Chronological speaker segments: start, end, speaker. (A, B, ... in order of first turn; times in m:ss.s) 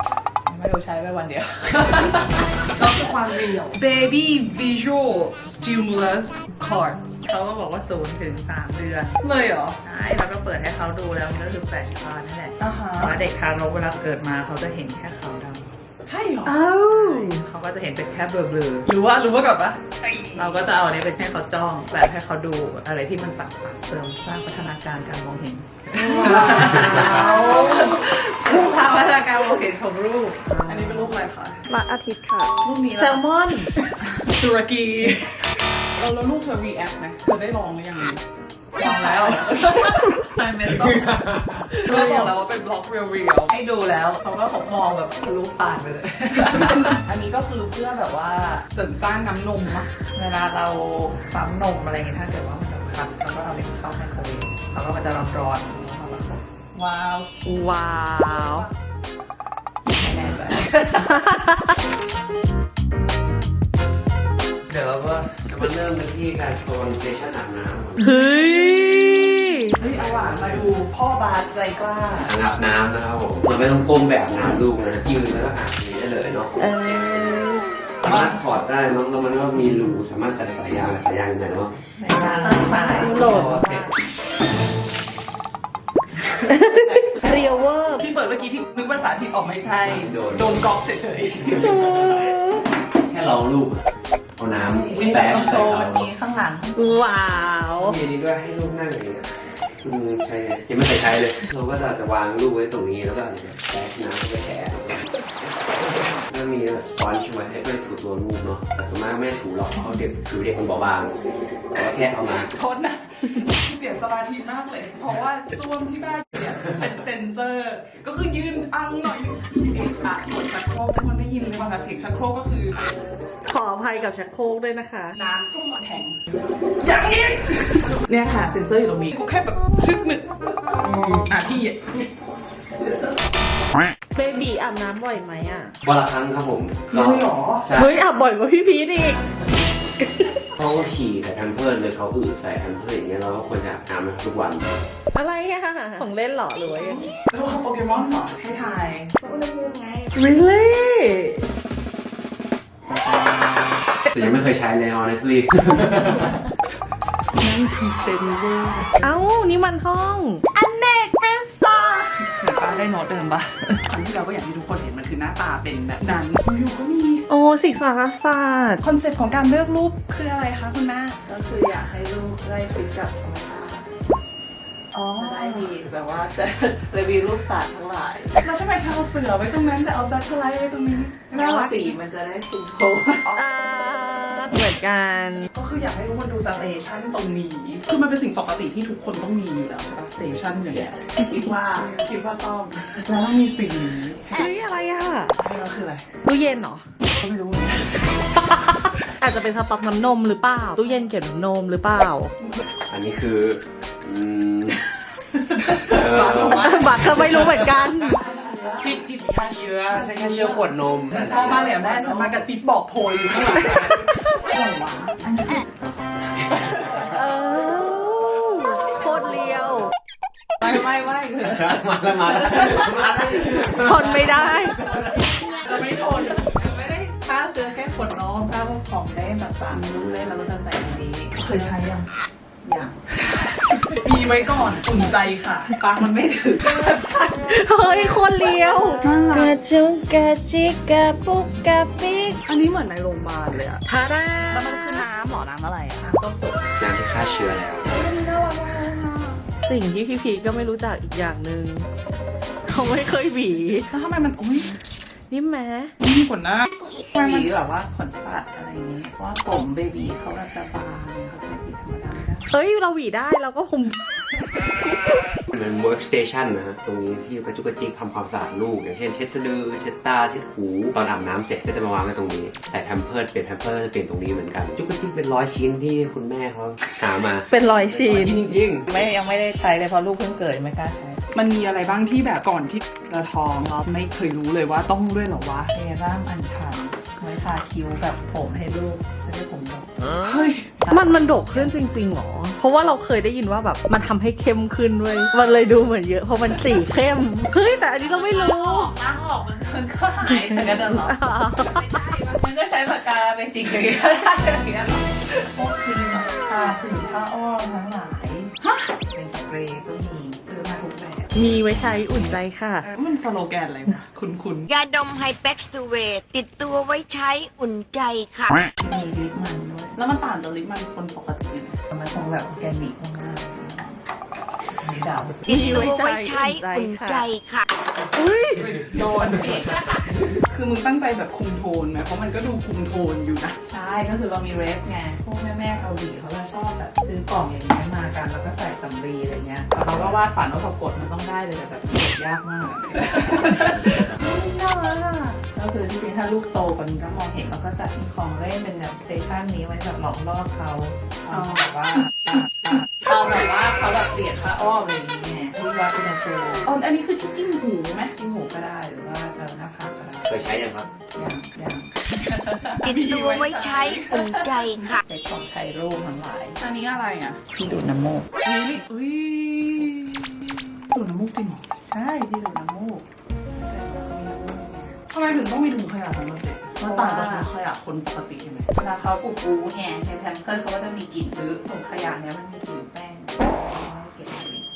0:00.5-0:07.2 A
0:00.6-0:01.6 B
0:07.2-0:09.2 B
0:09.2-0:09.8 A
0:09.8-0:15.7 B
0:12.6-0:13.1 A
0:16.0-0:17.3 A
0:16.4-0:17.4 C
0:16.8-0:18.9 B
0:18.8-0:20.4 A
0:20.3-0:30.4 B
0:25.9-0:29.3 A
0:25.9-0:28.5 C
0:30.4-0:31.1 C
0:30.6-0:31.6 A
0:31.7-0:33.7 C
0:32.6-0:38.2 A
0:38.8-0:40.2 A
0:38.8-0:41.3 B
0:39.9-0:40.1 C
0:41.6-0:42.3 C
0:41.8-0:43.6 A
0:43.5-0:46.8 B
0:46.4-0:49.9 A
0:50.1-0:56.4 B
0:56.7-0:58.7 A
0:57.4-0:58.7 C
0:59.9-1:01.4 A
1:01.0-1:01.7 C
1:04.7-1:08.0 D
1:08.0-1:09.7 C
1:08.1-1:08.6 A
1:09.7-1:12.3 A
1:09.8-1:10.8 D
1:12.2-1:17.4 D
1:16.6-1:17.6 C
1:18.0-1:21.8 D
1:22.0-1:23.8 B
1:22.4-1:23.8 C
1:23.1-1:23.9 D
1:26.4-1:28.0 C
1:26.7-1:27.2 A
1:28.0-1:31.7 A
1:29.8-1:30.7 D
1:31.4-1:32.7 C
1:31.8-1:32.1 D
1:32.9-1:33.8 D
1:34.4-1:36.1 D
1:34.6-1:36.0 B
1:34.7-1:36.7 A
1:36.8-1:38.0 C
1:37.8-1:45.2 D
1:45.9-1:51.2 D
1:51.7-1:52.5 D
1:52.3-2:02.8 A
2:03.4-2:05.2 C
2:05.1-2:12.1 A
2:14.1-2:15.7 C
2:15.8-2:18.0 D
2:16.9-2:17.7 A
2:17.7-2:19.2 C
2:20.0-2:20.4 C
2:20.6-2:24.7 D
2:25.1-2:27.1 C
2:27.3-2:29.1 A
2:29.2-2:31.4 C
2:34.0-2:36.4 D
2:37.4-2:39.2 A
2:39.0-2:40.4 C
2:40.5-2:47.2 A
2:47.3-2:48.8 C
2:48.8-2:51.2 A
2:51.2-2:53.9 B
2:54.9-2:55.7 A
2:55.1-2:58.5 B
2:58.4-3:01.9 A
3:01.3-3:03.4 B
3:03.3-3:05.5 C
3:05.5-3:12.3 A
3:11.1-3:12.9 B
3:12.9-3:14.4 A
3:14.3-3:15.4 C
3:15.4-3:16.0 A
3:16.2-3:16.9 C
3:17.0-3:18.4 A
3:18.4-3:22.3 C
3:22.9-3:24.8 D
3:25.4-3:28.8 A
3:25.8-3:27.5 D
3:26.4-3:28.2 C
3:28.8-3:31.8 D
3:29.9-3:35.7 A
3:31.7-3:32.3 B
3:36.4-3:37.1 A
3:37.0-3:39.9 C
3:38.9-3:39.4 A
3:40.6-3:41.6 A
3:41.4-3:45.2 D
3:42.3-3:44.4 A
3:43.6-3:44.8 C
3:44.9-3:46.5 A
3:45.5-3:51.7 B
3:49.7-3:50.1 A
3:51.3-3:52.1 A
3:52.6-3:53.0 B
3:53.3-3:55.8 A
3:55.7-3:57.3 B
3:56.7-3:57.0 A
3:56.8-4:02.4 C
3:59.0-3:59.5 A
4:02.4-4:03.8 A
4:03.9-4:05.0 C
4:04.4-4:06.0 A
4:06.0-4:06.7 B
4:06.8-4:08.0 D
4:07.9-4:09.4 A
4:09.6-4:11.9 C
4:12.7-4:13.9 C
4:13.8-4:14.7 A
4:15.3-4:15.9 C
4:16.0-4:17.5 A
4:17.1-4:22.4 B
4:22.5-4:25.2 C
4:25.5-4:38.9 D
4:37.5-4:38.4 C
4:38.9-4:41.2 B
4:41.3-4:45.7 A
4:45.7-4:50.0 B
4:50.2-4:50.8 A
4:50.8-4:51.7 B
4:50.9-4:58.9 C
4:58.0-5:08.5 B
5:00.5-5:01.9 C
5:08.6-5:08.9 A
5:09.1-5:11.3 B
5:11.3-5:12.9 C
5:12.8-5:14.7 A
5:14.7-5:18.5 E
5:18.8-5:20.0 B
5:20.0-5:21.8 A
5:21.9-5:24.0 B
5:24.8-5:25.6 B
5:25.5-5:27.3 C
5:25.5-5:27.6 E
5:28.1-5:28.8 C
5:28.6-5:33.6 A
5:29.1-5:30.2 B
5:33.6-5:56.6 B
5:39.8-5:40.2 D
5:42.9-5:44.2 A
5:51.3-5:51.8 A
5:56.6-5:58.1 A
5:58.1-6:00.6 B
6:00.3-6:00.8 D
6:01.1-6:01.9 B
6:02.2-6:04.5 A
6:02.8-6:05.0 E
6:04.8-6:06.6 B
6:06.6-6:07.4 A
6:07.5-6:08.3 B
6:08.4-6:11.8 A
6:11.9-6:13.0 B
6:13.6-6:15.0 B
6:15.0-6:18.7 A
6:16.8-6:17.5 B
6:18.7-6:24.7 B